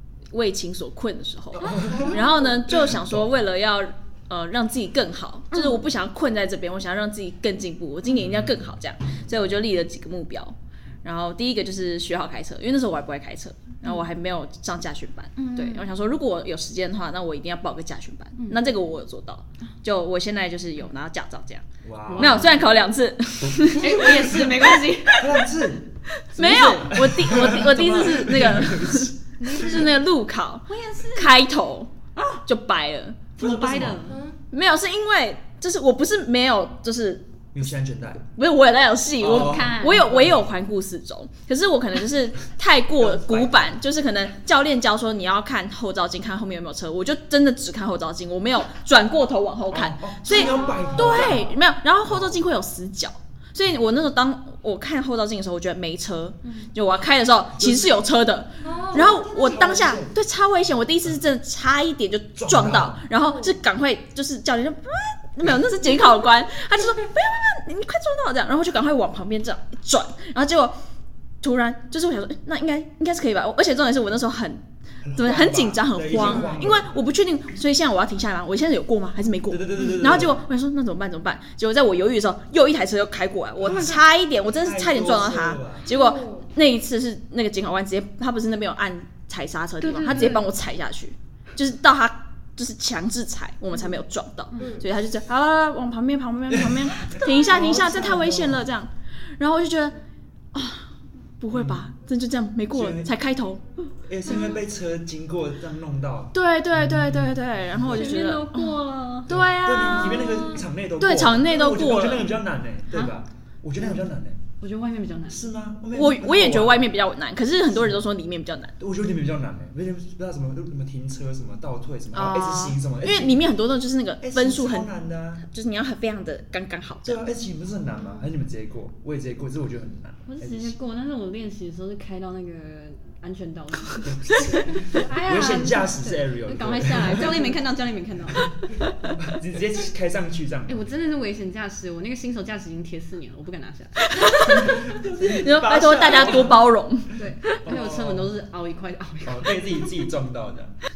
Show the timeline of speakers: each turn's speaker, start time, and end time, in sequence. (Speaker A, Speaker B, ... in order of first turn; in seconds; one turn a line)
Speaker A: 0.3-25.2
Speaker B: 1.6-3.3
Speaker C: 1.9-2.2
Speaker D: 5.5-5.8
Speaker B: 8.1-9.6
Speaker D: 15.3-15.9
Speaker B: 21.8-22.6
Speaker D: 22.1-22.6
Speaker B: 23.5-29.8
Speaker D: 23.7-25.3
Speaker A: 26.3-33.2
Speaker D: 26.5-26.8
Speaker D: 29.4-29.9
Speaker D: 30.7-31.4
Speaker D: 32.1-32.4
Speaker B: 33.4-34.1
Speaker D: 33.4-34.2
Speaker C: 34.0-34.4
Speaker A: 34.5-37.3
Speaker B: 37.5-38.3
Speaker A: 38.4-70.8
Speaker B: 39.2-40.5
Speaker D: 39.2-40.1
Speaker B: 43.0-43.8
Speaker B: 49.7-52.4
Speaker C: 50.3-51.5
Speaker D: 56.4-56.7
Speaker B: 57.6-58.0
Speaker C: 58.6-59.8
Speaker B: 59.0-60.1
Speaker B: 62.4-63.1
Speaker C: 63.2-63.6
Speaker A: 71.4-74.6
Speaker B: 75.0-77.0
Speaker A: 75.1-100.0
Speaker C: 76.2-76.6
Speaker B: 79.5-80.4
Speaker B: 83.6-85.9
Speaker C: 85.9-86.5
Speaker D: 89.8-90.5
Speaker C: 90.0-90.4
Speaker D: 94.5-94.8
Speaker C: 94.6-94.9
Speaker B: 96.5-98.7
Speaker A: 100.5-103.9
Speaker B: 101.5-101.8
Speaker B: 102.7-103.1
Speaker B: 104.1-108.3
Speaker D: 104.3-104.6
Speaker A: 106.3-112.4
Speaker D: 107.9-109.3
Speaker B: 109.3-114.4
Speaker D: 110.1-110.6
Speaker D: 112.9-113.2
Speaker D: 114.6-115.4
Speaker B: 115.3-116.9
Speaker A: 115.9-118.7
Speaker B: 117.8-118.0
Speaker B: 118.8-123.5
Speaker A: 122.1-124.9
Speaker B: 124.2-125.4
Speaker A: 125.5-127.2
Speaker B: 127.0-130.7
Speaker D: 130.2-139.1
Speaker B: 134.0-137.6
Speaker B: 139.2-140.9
Speaker D: 140.7-145.4
Speaker A: 144.0-147.6
Speaker B: 144.6-146.6
Speaker D: 147.1-149.9
Speaker B: 147.6-148.3
Speaker B: 149.2-150.8